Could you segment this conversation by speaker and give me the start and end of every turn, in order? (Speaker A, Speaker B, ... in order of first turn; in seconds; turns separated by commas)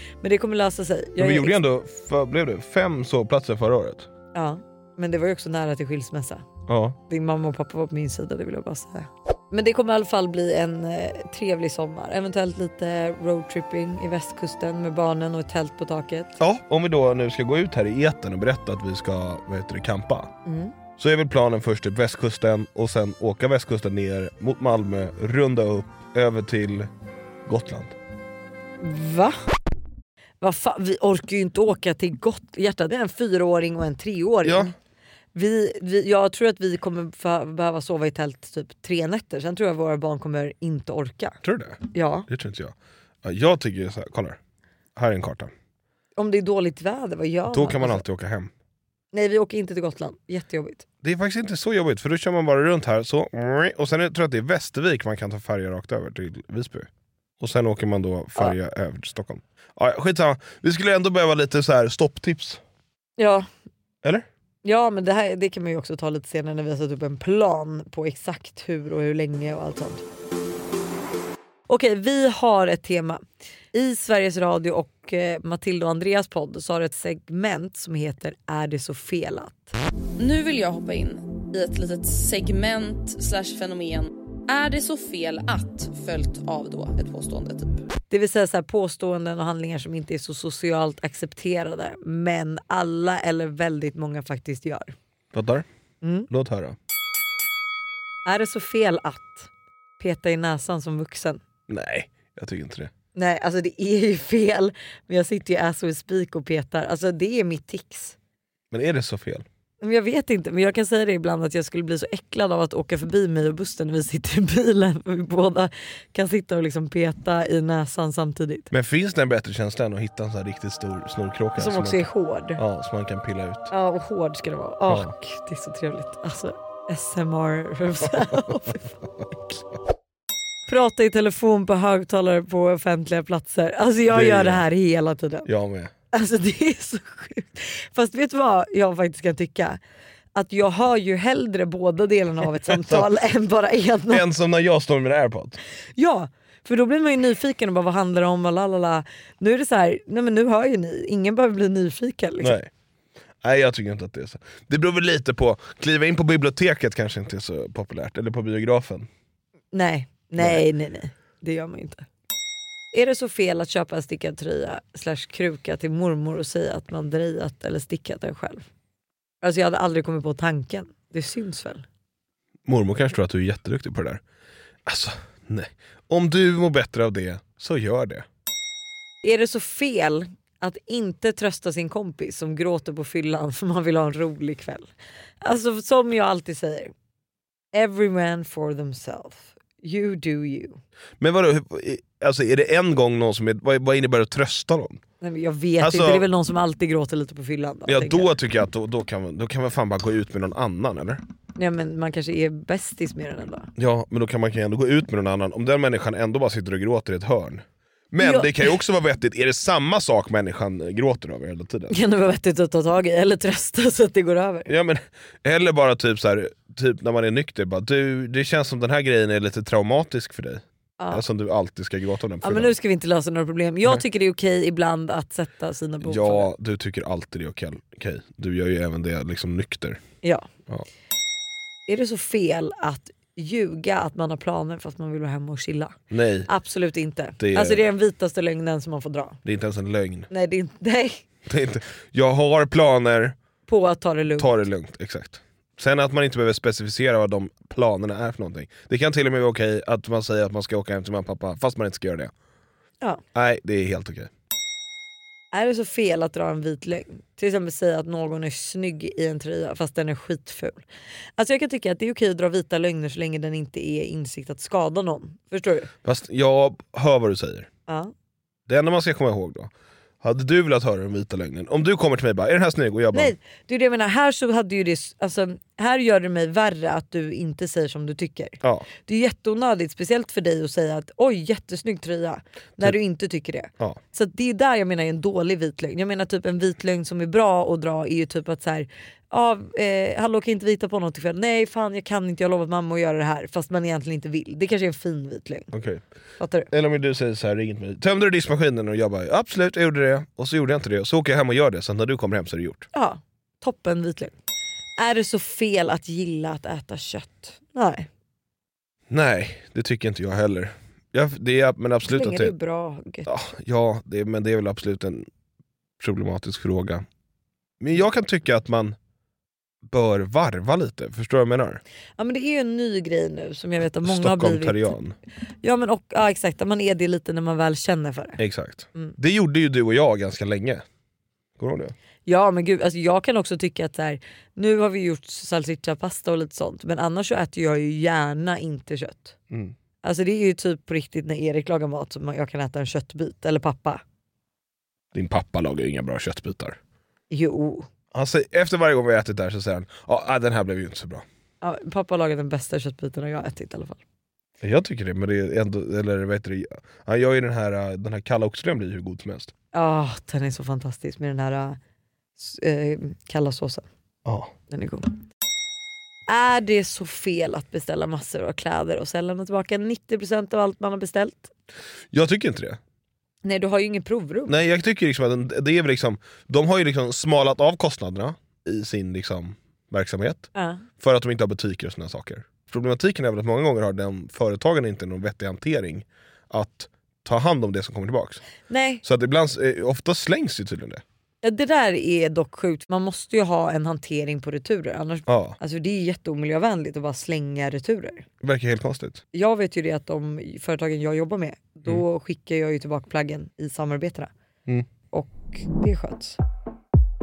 Speaker A: 0.2-1.6, Speaker B: 1.2-4.1, Speaker A: 4.3-6.5, Speaker B: 6.7-7.0, Speaker A: 7.1-16.4, Speaker B: 16.4-20.3, Speaker A: 20.4-20.7, Speaker B: 21.0-26.9, Speaker B: 27.4-27.9, Speaker A: 28.8-29.4, Speaker A: 30.4-34.7, Speaker B: 34.4-34.7, Speaker A: 35.3-41.4, Speaker B: 41.4-44.4, Speaker A: 41.9-42.3, Speaker B: 45.0-45.5, Speaker A: 46.1-48.0, Speaker B: 47.5-48.5, Speaker A: 49.1-50.8, Speaker B: 51.0-56.9, Speaker B: 57.4-62.6, Speaker A: 63.2-63.5, Speaker A: 64.6-70.0, Speaker A: 71.7-79.7, Speaker C: 80.2-87.8, Speaker A: 88.1-94.9, Speaker B: 95.3-95.7, Speaker A: 96.0-96.3, Speaker B: 96.3-96.8, Speaker A: 98.2-101.4, Speaker B: 101.7-102.9, Speaker A: 103.1-108.2, Speaker B: 108.7-109.4, Speaker A: 109.8-118.7, Speaker B: 118.7-123.7, Speaker A: 121.6-122.6, Speaker A: 123.7-129.0, Speaker A: 130.7-135.5, Speaker B: 134.1-134.6, Speaker B: 135.4-135.9, Speaker A: 136.1-139.8, Speaker A: 140.3-144.2, Speaker B: 142.7-143.1, Speaker B: 144.1-145.6, Speaker A: 146.0-152.6, Speaker B: 152.4-152.7, Speaker B: 153.4-159.1, Speaker A: 159.7-162.0, Speaker B: 160.4-160.6, Speaker A: 162.9-168.6, Speaker A: 169.4-171.8, Speaker B: 172.7-174.2, Speaker B: 174.8-178.2, Speaker A: 179.2-184.9, Speaker A: 185.4-186.9, Speaker A: 187.7-190.8, Speaker B: 191.2-195.0, Speaker A: 195.2-198.3, Speaker B: 195.8-196.3, Speaker B: 197.9-201.2, Speaker A: 201.6-203.7, Speaker B: 203.8-211.9, Speaker A: 208.2-208.7, Speaker A: 211.9-214.7, Speaker B: 214.7-222.7, Speaker A: 221.0-221.2, Speaker A: 222.4-226.5, Speaker B: 226.0-230.0, Speaker A: 230.2-230.5, Speaker A: 231.9-236.0, Speaker B: 236.1-236.5, Speaker A: 236.5-239.4, Speaker B: 237.4-237.8, Speaker B: 239.4-240.3, Speaker A: 240.3-241.2, Speaker B: 241.4-243.3, Speaker A: 243.7-244.5, Speaker B: 244.4-252.3, Speaker B: 253.3-254.3, Speaker A: 255.5-260.8, Speaker A: 261.4-265.9, Speaker B: 266.0-267.7, Speaker A: 267.9-268.1, Speaker B: 268.7-269.7, Speaker B: 270.2-273.3, Speaker A: 273.1-295.7, Speaker B: 278.6-278.9, Speaker B: 295.7-296.0, Speaker A: 296.4-296.7, Speaker B: 296.7-302.9, Speaker A: 302.9-304.3, Speaker A: 305.0-308.1, Speaker B: 309.1-312.5, Speaker A: 312.0-313.3, Speaker B: 313.2-315.3, Speaker B: 316.0-317.0, Speaker B: 317.8-318.9, Speaker B: 319.9-321.8, Speaker A: 322.2-324.9, Speaker B: 324.0-325.1, Speaker A: 325.6-328.4, Speaker B: 328.4-330.8, Speaker B: 331.6-331.9, Speaker A: 332.2-339.4, Speaker A: 340.0-344.0, Speaker B: 345.1-346.8, Speaker A: 347.3-347.9, Speaker B: 348.1-351.2, Speaker A: 351.6-354.0, Speaker B: 354.6-359.5, Speaker A: 359.7-361.8, Speaker A: 362.4-363.9, Speaker B: 364.2-364.5, Speaker A: 364.7-365.1, Speaker A: 366.3-371.5, Speaker B: 372.1-372.8, Speaker A: 373.4-374.5, Speaker B: 374.5-380.5, Speaker A: 380.5-380.8, Speaker B: 381.0-388.4, Speaker A: 388.7-389.0, Speaker B: 389.0-391.0, Speaker A: 391.4-398.2, Speaker B: 395.3-395.6, Speaker B: 398.4-399.2, Speaker A: 399.3-404.3, Speaker A: 405.1-406.4